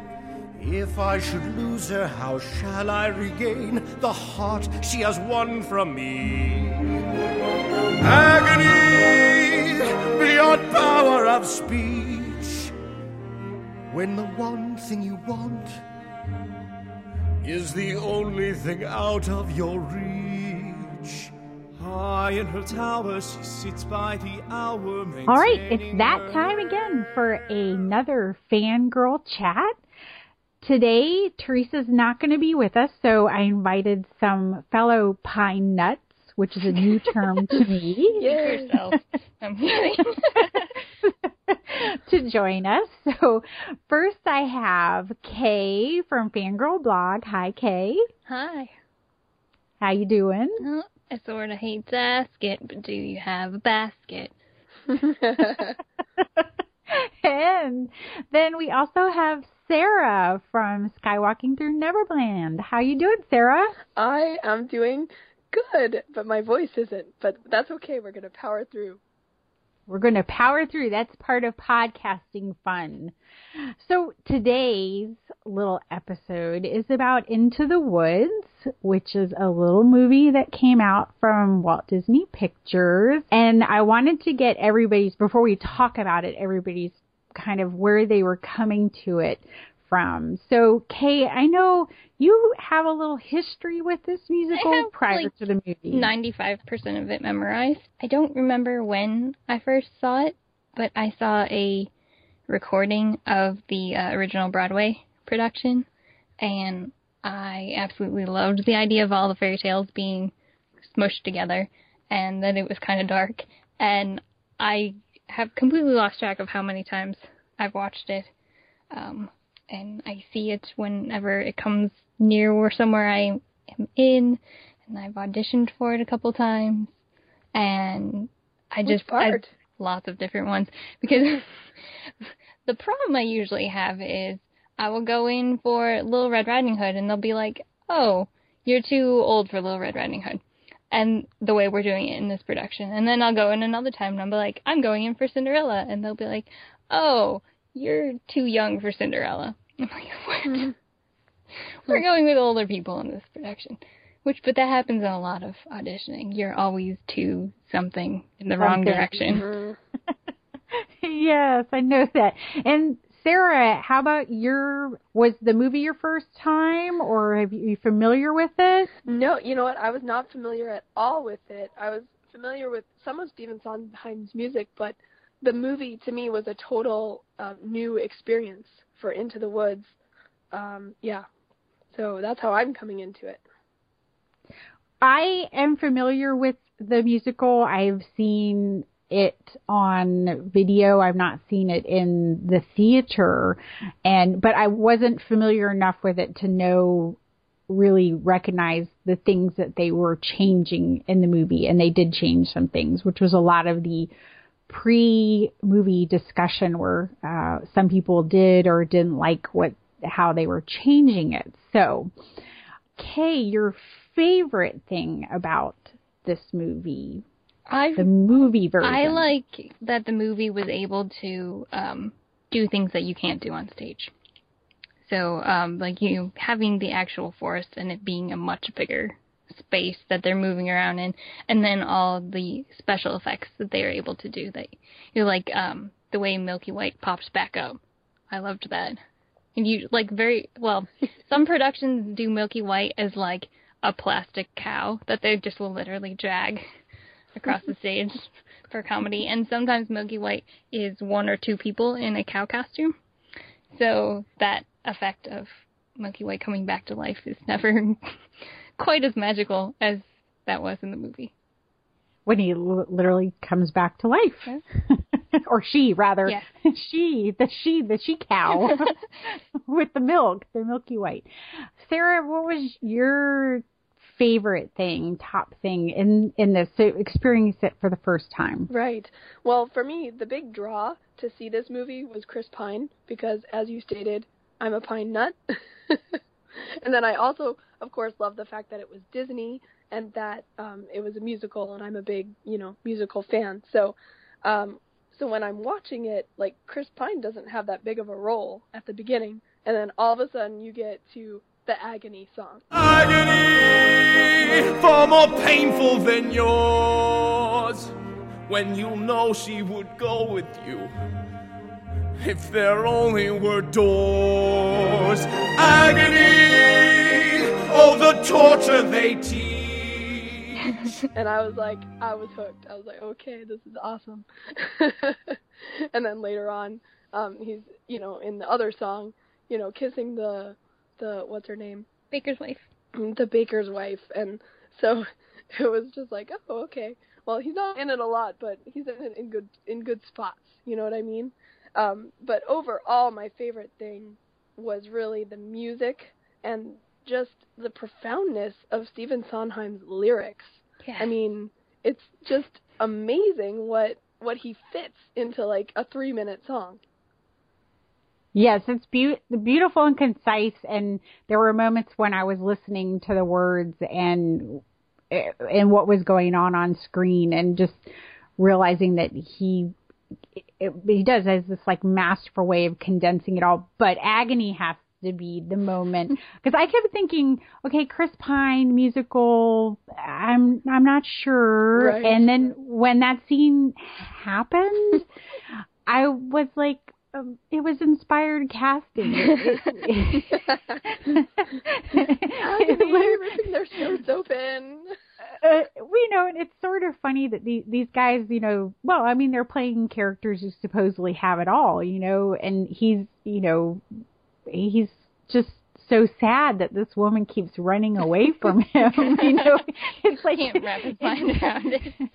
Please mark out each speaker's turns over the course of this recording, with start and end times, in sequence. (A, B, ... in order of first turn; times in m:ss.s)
0:00.6-0:06.9 A
0:08.0-0:12.7 A
0:13.9-0:15.8 A
0:17.4-0:21.3 A
0:21.8-0:26.4 B
0:25.3-0:29.8 C
0:30.6-0:38.3 C
0:38.2-0:38.7 D
0:38.2-0:40.8 E
0:41.0-0:48.1 C
0:48.3-0:48.7 E
0:49.8-0:50.6 C
0:50.6-0:54.3 E
0:54.9-0:55.8 D
0:56.2-1:03.8 C
1:04.0-1:09.0 D
1:09.9-1:36.1 C
1:34.5-1:35.3 E
1:35.9-1:41.9 E
1:42.5-1:45.9 E
1:46.4-1:58.3 E
1:58.9-2:06.9 E
2:07.5-2:11.5 E
2:08.8-2:09.5 D
2:12.6-2:30.7 E
2:30.5-2:30.7 D
2:31.9-2:39.4 E
2:38.6-2:39.4 C
2:39.3-2:39.8 D
2:40.7-2:48.9 C
2:49.0-2:59.9 D
3:00.5-3:01.2 D
3:01.9-3:03.4 D
3:05.0-3:24.1 C
3:24.7-3:32.1 C
3:33.0-3:37.2 C
3:37.7-3:38.1 E
3:38.0-3:39.3 C
3:38.8-3:44.1 E
3:45.0-3:59.0 E
3:59.5-4:06.6 E
4:07.4-4:12.9 E
4:13.7-4:18.2 E
4:18.8-4:21.3 E
4:22.2-4:31.3 C
4:31.8-4:38.7 C
4:38.7-4:45.4 D
4:45.9-5:02.6 D
5:02.7-5:07.9 B
5:08.5-5:10.9 B
5:12.2-5:21.0 B
5:21.1-5:31.9 D
5:32.1-5:32.6 E
5:32.9-5:56.8 D
5:50.8-5:51.1 E
5:58.3-6:09.7 C
6:10.4-6:25.0 C
6:21.7-6:22.3 D
6:25.8-6:33.2 C
6:30.3-6:30.8 D
6:32.4-6:34.9 D
6:35.4-6:43.8 C
6:44.5-6:51.5 C
6:49.0-6:49.4 E
6:50.3-6:52.0 E